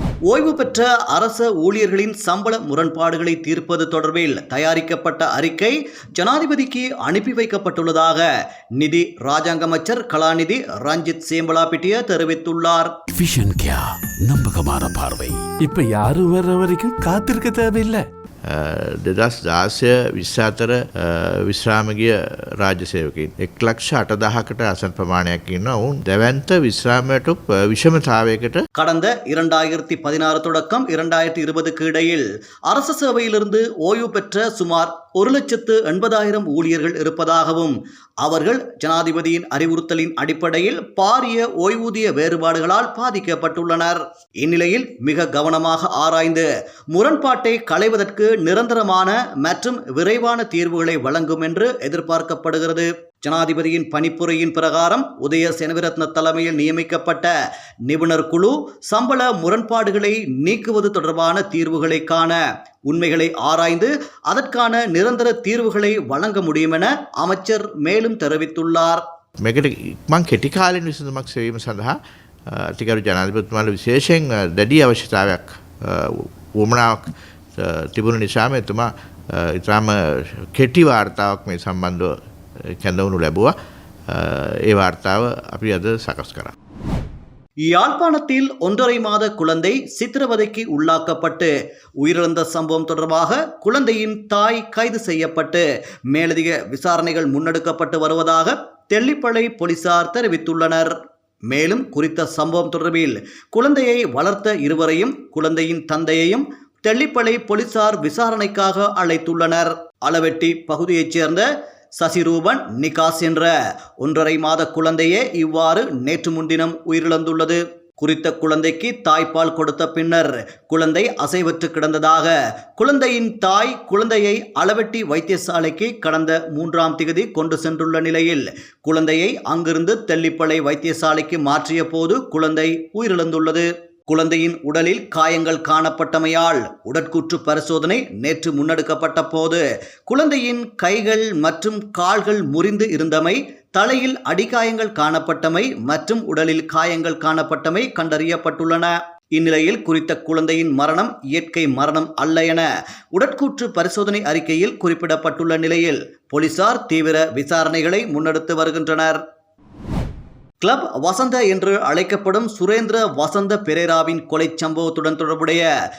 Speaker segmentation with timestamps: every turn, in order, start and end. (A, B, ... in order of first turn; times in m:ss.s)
0:00.3-0:12.9 A
0:13.1-0:15.5 B
0:15.6-0:18.1 C
0:18.5-0:28.6 D
0:28.8-0:57.3 A
0:57.9-1:09.0 A
1:09.4-1:22.2 D
1:22.7-1:23.6 D
1:24.1-1:26.5 D
1:27.7-1:40.9 A
1:41.5-1:51.4 A
1:52.0-2:39.2 A
2:40.6-2:45.7 A